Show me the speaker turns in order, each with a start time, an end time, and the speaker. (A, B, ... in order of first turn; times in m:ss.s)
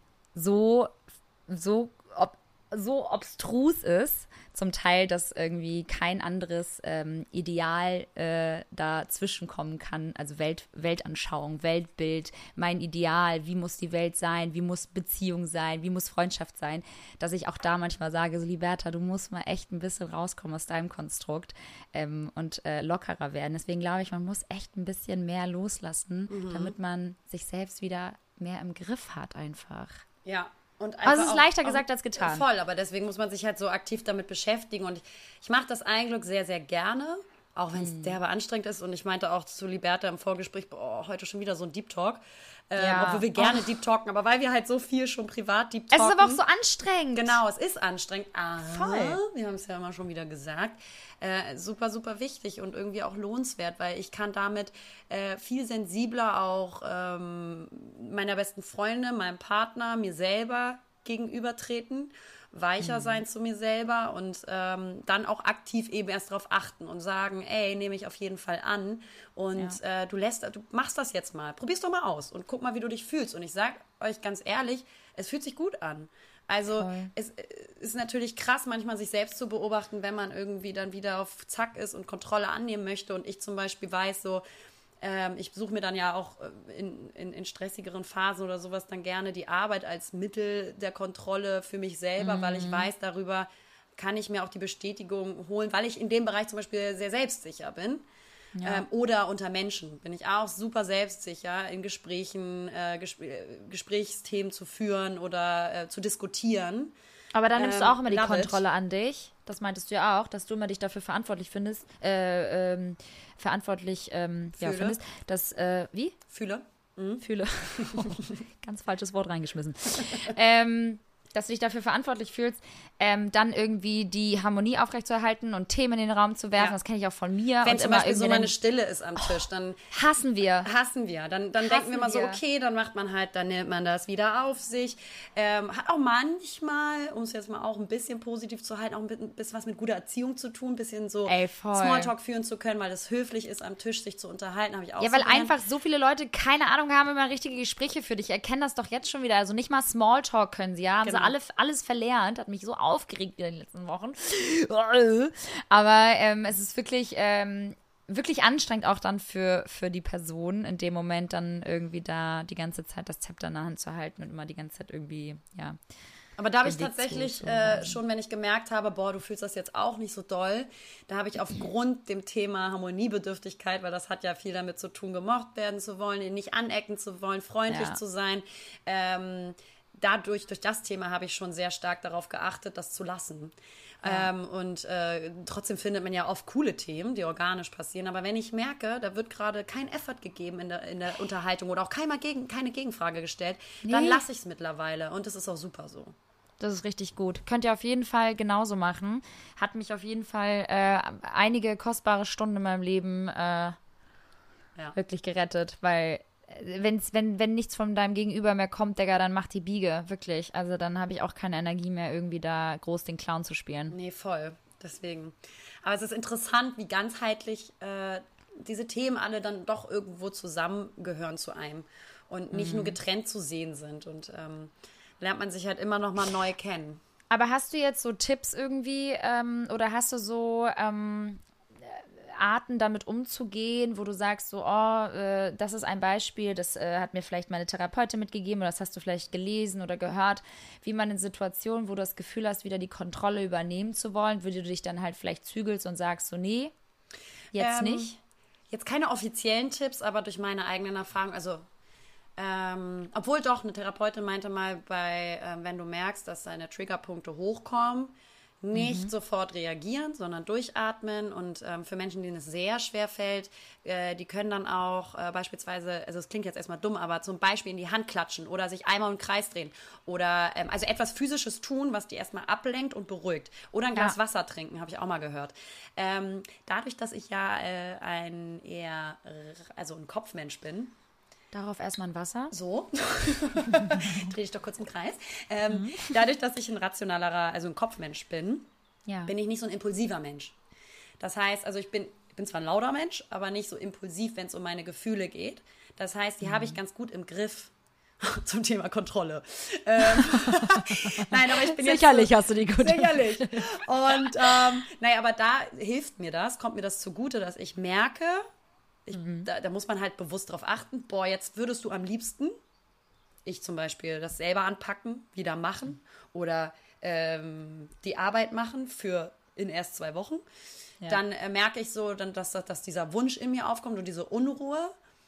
0:00.4-0:30.0 A
0:26.3-0:26.7 B
0:30.2-0:46.4 B
0:31.0-0:32.4 A
0:37.8-0:38.2 A
0:42.8-0:43.7 A
0:45.9-0:47.4 A
0:47.1-1:24.4 B
0:48.7-0:49.2 A
1:02.8-1:03.2 A
1:16.8-1:17.1 A
1:25.0-1:38.0 B
1:32.2-1:32.9 A
1:38.6-1:38.8 A
1:38.6-1:46.9 B
1:47.3-1:56.2 A
1:47.6-1:48.6 B
1:54.6-1:55.0 B
1:56.3-1:57.2 B
1:57.2-2:08.5 A
1:57.8-1:58.3 B
2:00.0-2:00.3 B
2:07.6-2:09.8 B
2:09.9-2:10.7 A
2:10.6-2:25.5 B
2:11.6-2:12.4 A
2:21.3-2:22.1 A
2:25.0-2:45.8 A
2:31.0-2:31.3 B
2:46.4-3:16.1 B
2:46.6-2:48.0 A
2:57.7-2:58.0 A
3:13.8-3:14.2 A
3:16.6-3:23.8 A
3:24.9-3:34.0 A
3:33.9-3:47.0 B
3:42.5-3:43.0 A
3:47.3-4:06.7 A
4:07.6-4:08.2 A
4:07.6-4:08.2 B
4:08.7-4:11.7 B
4:12.4-4:40.9 B
4:18.7-4:19.1 A
4:41.5-4:42.5 A
4:42.5-4:48.7 B
4:43.7-4:44.1 A
4:45.7-4:46.1 A
4:49.3-4:50.6 B
4:51.2-5:08.4 B
4:56.4-4:56.8 A
5:00.2-5:04.7 A
5:09.0-5:12.5 B
5:09.1-5:09.5 A
5:13.4-5:20.4 B
5:21.1-5:25.0 B